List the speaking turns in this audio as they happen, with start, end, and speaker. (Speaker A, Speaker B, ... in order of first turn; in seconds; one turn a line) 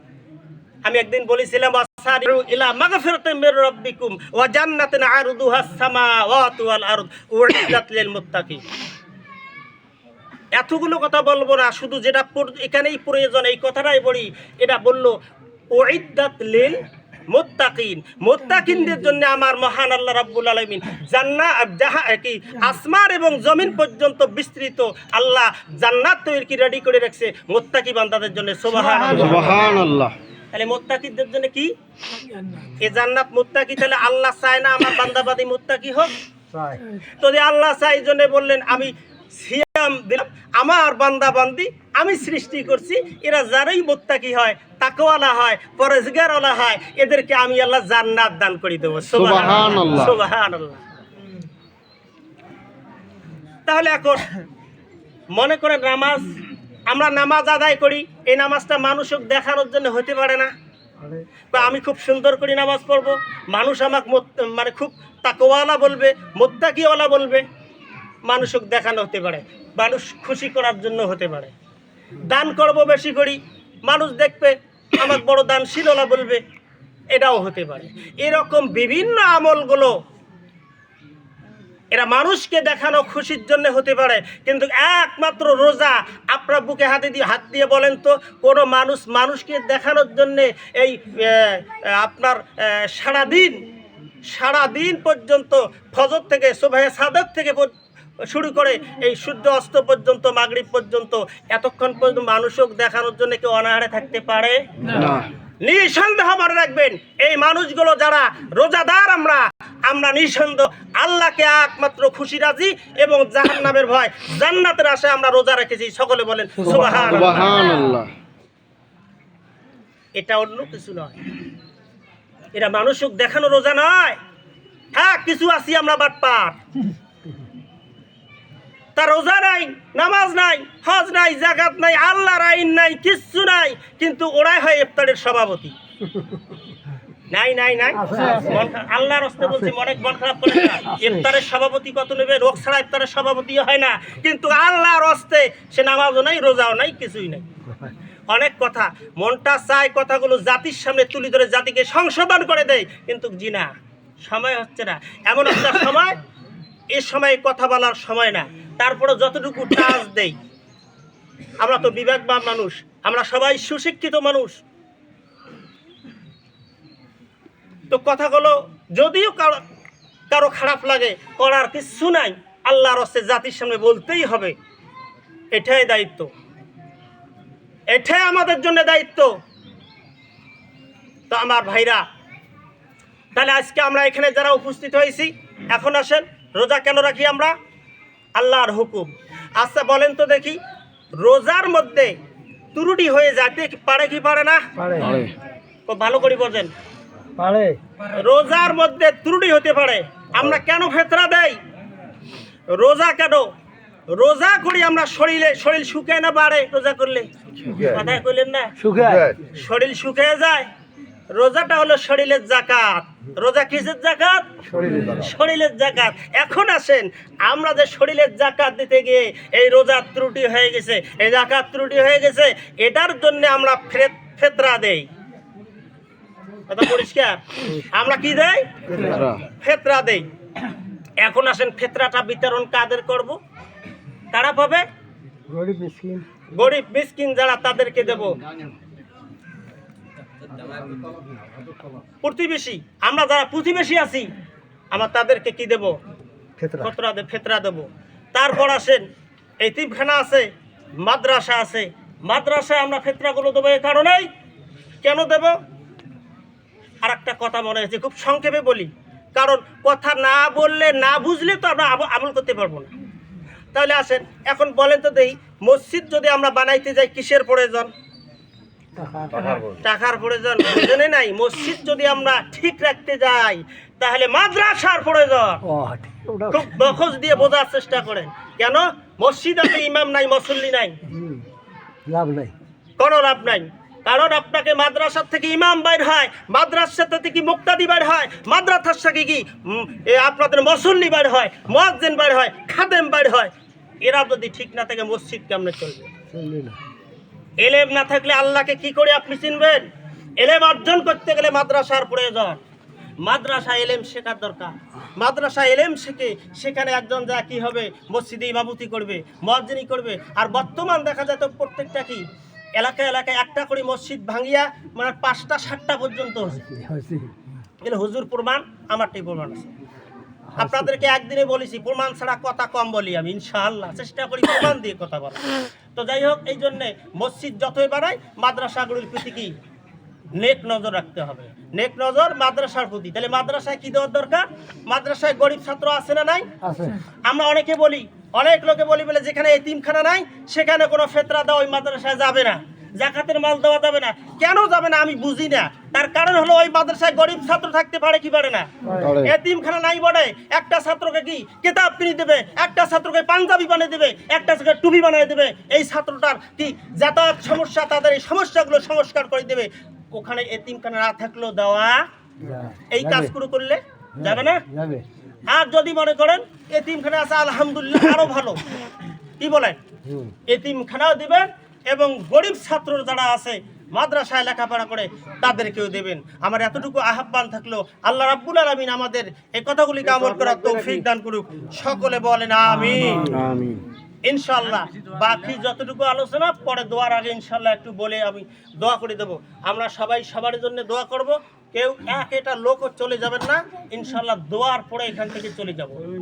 Speaker A: 0.8-8.6
Speaker A: 10.5-15.2
Speaker A: 15.7-29.6
Speaker B: 29.1-30.1
Speaker A: 30.5-31.7
Speaker A: 32.8-36.2
Speaker C: 36.6-36.8
Speaker A: 37.2-50.8
Speaker B: 49.1-50.1
Speaker A: 53.6-54.3
Speaker A: 55.3-60.5
Speaker A: 61.5-67.4
Speaker A: 68.2-71.5
Speaker A: 72.2-76.4
Speaker A: 77.1-79.9
Speaker A: 81.9-93.6
Speaker A: 94.3-97.7
Speaker A: 98.2-104.6
Speaker B: 104.9-105.3
Speaker A: 105.6-117.6
Speaker C: 116.7-116.9
Speaker B: 117.0-118.1
Speaker A: 120.2-121.2
Speaker A: 122.5-124.2
Speaker A: 124.9-126.6
Speaker A: 128.9-135.7
Speaker A: 137.3-147.4
Speaker C: 138.0-138.5
Speaker C: 140.9-141.2
Speaker A: 148.3-153.7
Speaker A: 154.2-156.2
Speaker A: 156.9-160.3
Speaker A: 161.6-164.6
Speaker A: 167.9-169.6
Speaker A: 170.3-174.6
Speaker A: 175.5-176.3
Speaker A: 177.9-179.3
Speaker A: 181.3-182.0
Speaker A: 183.3-187.5
Speaker A: 188.4-190.6
Speaker A: 191.2-192.1
Speaker A: 192.7-194.6
Speaker C: 194.8-195.2
Speaker B: 195.0-195.3
Speaker A: 195.9-196.7
Speaker C: 197.4-197.8
Speaker A: 198.1-201.6
Speaker A: 202.7-203.5
Speaker A: 204.1-208.7
Speaker C: 208.8-209.4
Speaker A: 209.5-210.7
Speaker A: 211.3-225.1
Speaker C: 214.7-215.1
Speaker A: 226.7-230.3
Speaker B: 229.0-229.4
Speaker A: 231.2-233.4
Speaker A: 234.3-234.8
Speaker C: 235.5-236.3
Speaker A: 236.5-238.3
Speaker A: 242.2-244.3
Speaker A: 244.9-246.0
Speaker C: 246.6-246.9
Speaker A: 246.8-249.0
Speaker A: 249.6-250.5
Speaker A: 251.0-254.3
Speaker A: 255.0-255.6
Speaker A: 257.0-262.9
Speaker A: 263.7-267.9
Speaker C: 269.0-269.7
Speaker A: 269.8-275.6
Speaker C: 275.7-276.6
Speaker A: 276.5-281.0
Speaker C: 281.1-281.4
Speaker C: 282.1-282.5
Speaker A: 283.0-293.5
Speaker A: 294.0-296.1
Speaker C: 296.3-296.8
Speaker A: 297.6-299.9
Speaker A: 300.4-302.6
Speaker A: 303.2-312.2
Speaker A: 312.8-316.7
Speaker C: 316.6-317.3
Speaker A: 317.8-319.7
Speaker C: 320.5-320.9
Speaker A: 320.6-329.5
Speaker A: 330.4-336.5
Speaker C: 336.6-337.0
Speaker A: 337.3-362.0
Speaker B: 349.0-349.3
Speaker C: 362.4-363.3
Speaker A: 362.9-364.6
Speaker C: 364.2-365.1
Speaker A: 365.5-368.6
Speaker A: 369.4-369.8
Speaker C: 370.1-370.4
Speaker A: 370.5-383.4
Speaker B: 383.3-383.8
Speaker A: 384.2-396.0